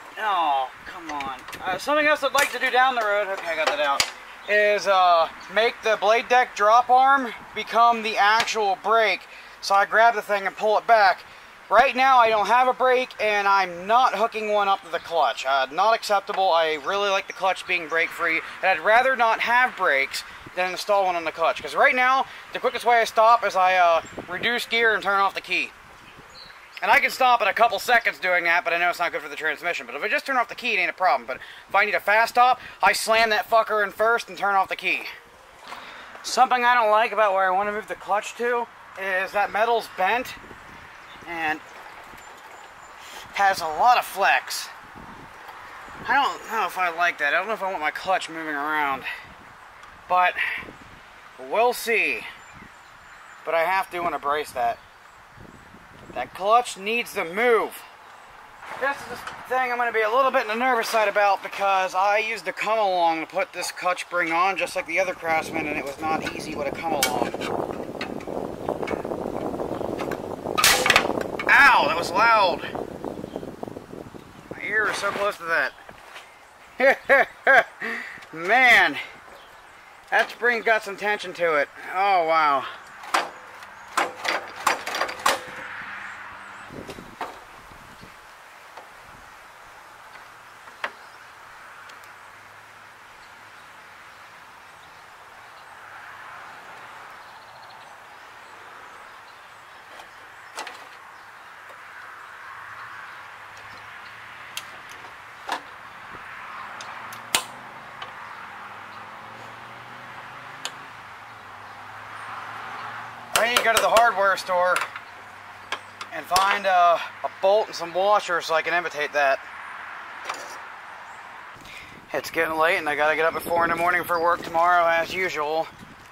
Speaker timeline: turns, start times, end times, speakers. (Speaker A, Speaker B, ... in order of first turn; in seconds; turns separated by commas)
Speaker A: 0.1-25.7, Speaker A: 26.8-35.1, Speaker A: 36.2-40.4, Speaker A: 41.2-41.6, Speaker A: 43.3-44.7, Speaker A: 46.0-49.1, Speaker A: 50.1-50.6, Speaker A: 51.4-52.3, Speaker A: 53.4-54.8, Speaker A: 56.1-57.8, Speaker A: 58.8-67.4, Speaker A: 71.5-72.7, Speaker A: 74.5-75.8, Speaker A: 76.8-79.0, Speaker A: 80.1-82.7, Speaker A: 113.3-114.8, Speaker A: 116.1-119.4, Speaker A: 122.1-125.7